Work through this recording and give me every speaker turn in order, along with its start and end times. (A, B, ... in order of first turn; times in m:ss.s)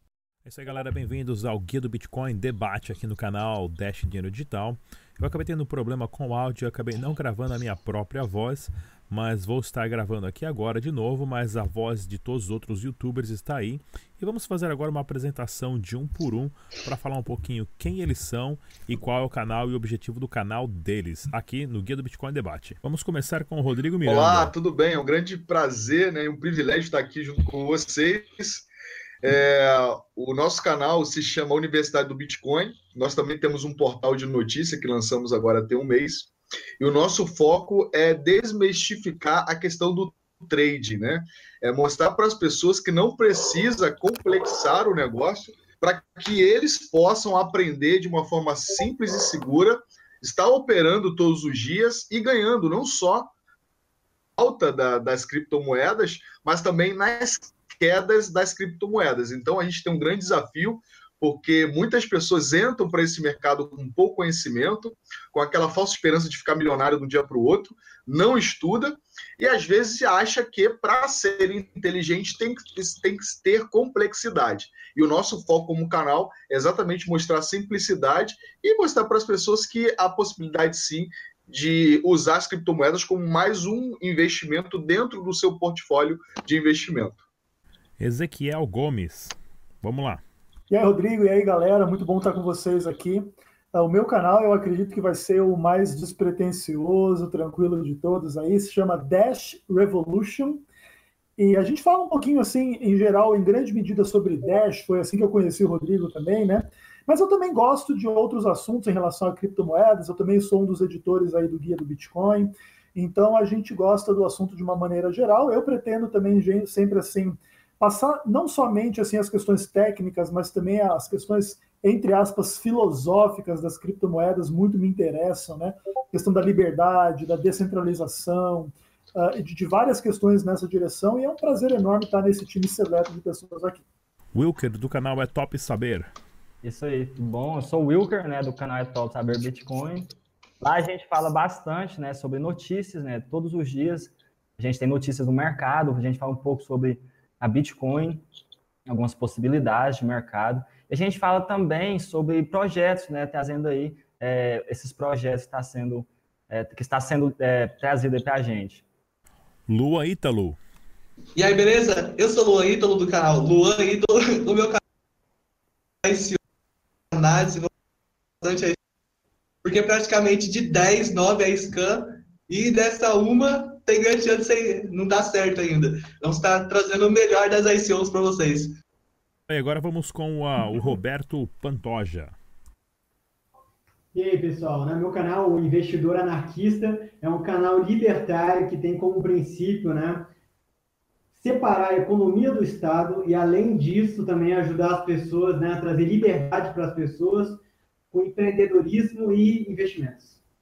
0:00.4-0:24.5 A
0:24.0-0:28.7 B
0:29.2-0:53.3 B
0:54.4-1:27.2 B
1:28.0-1:30.2 A
1:30.7-1:40.6 C
1:41.4-2:13.8 C
2:14.4-2:16.1 A
2:16.6-2:28.2 D
2:28.9-2:38.8 D
2:39.7-2:40.6 A
2:41.4-2:44.8 E
2:46.0-2:46.4 E
2:47.1-2:47.7 E
2:48.4-2:48.8 E
2:49.6-2:58.7 E
2:59.5-3:02.4 A
3:04.1-3:10.3 F
3:11.4-3:17.6 F
3:18.1-3:20.4 F